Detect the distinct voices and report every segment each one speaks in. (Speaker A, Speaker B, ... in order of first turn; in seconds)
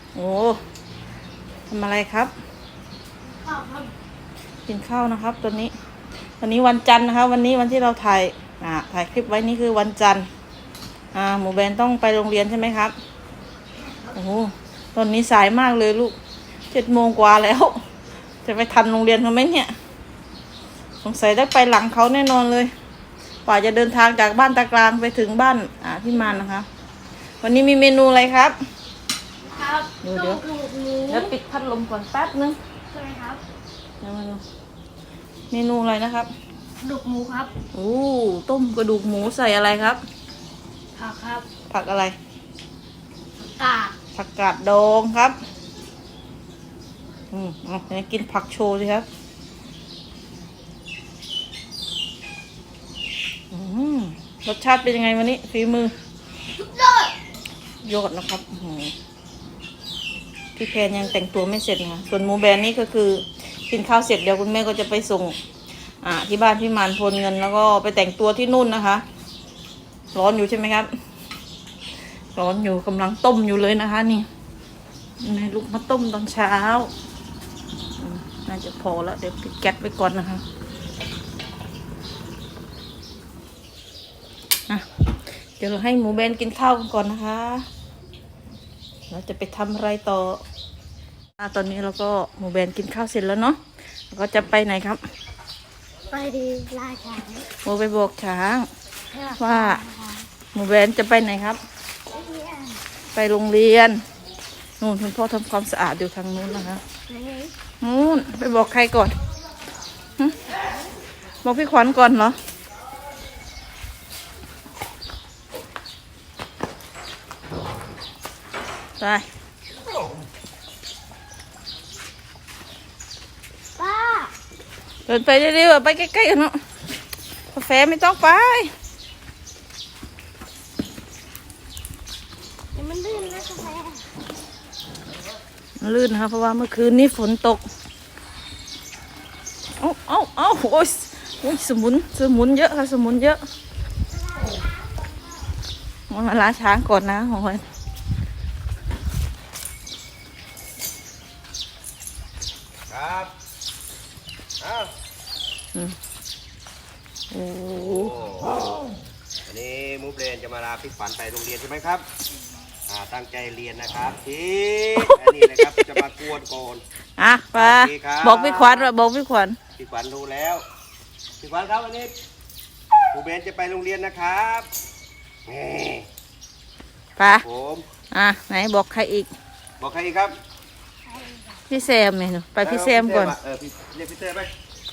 Speaker A: 0.1-0.6, 1.7-2.3, 4.7-5.7, 6.4-10.3, 11.1-12.9, 14.1-16.2, 16.7-17.8, 18.4-19.7, 21.0-22.7, 23.4-26.7, 27.4-28.6, 30.0-30.4, 31.1-32.6, 34.0-34.4, 35.5-36.3, 37.7-40.0, 41.7-42.1, 44.1-45.4, 47.3-49.0, 53.5-55.9, 57.8-58.9, 60.5-65.4, 66.0-69.0, 70.1-70.9, 72.3-74.3, 75.2-76.9, 78.0-80.4, 85.6-87.7, 89.1-90.4, 91.4-93.6, 94.1-95.0, 97.6-98.7, 99.4-99.8, 100.5-101.6, 103.1-104.0, 104.8-106.8, 107.8-109.1, 111.4-112.4, 119.0-119.2, 125.1-126.6, 127.5-128.7, 135.8-137.6, 139.8-143.4, 146.1-147.6, 157.3-158.1, 165.0-166.0, 167.2-169.6, 177.2-177.4, 178.1-179.3, 181.7-183.3
Speaker B: 3.3-3.9, 29.6-31.3, 32.9-33.4, 36.8-37.5, 41.0-41.5, 43.4-44.0, 56.6-57.1, 96.1-97.5, 99.1-100.3, 102.1-102.8, 107.1-107.5, 123.8-124.3, 132.8-134.0, 144.1-145.4, 181.1-181.6
Speaker C: 152.9-153.3, 154.6-154.9, 157.7-158.7, 159.4-162.1, 162.9-166.8, 167.6-168.9, 169.8-170.7, 171.4-172.1, 173.1-174.7, 175.4-176.1, 177.4-177.9, 179.8-180.4, 182.6-184.5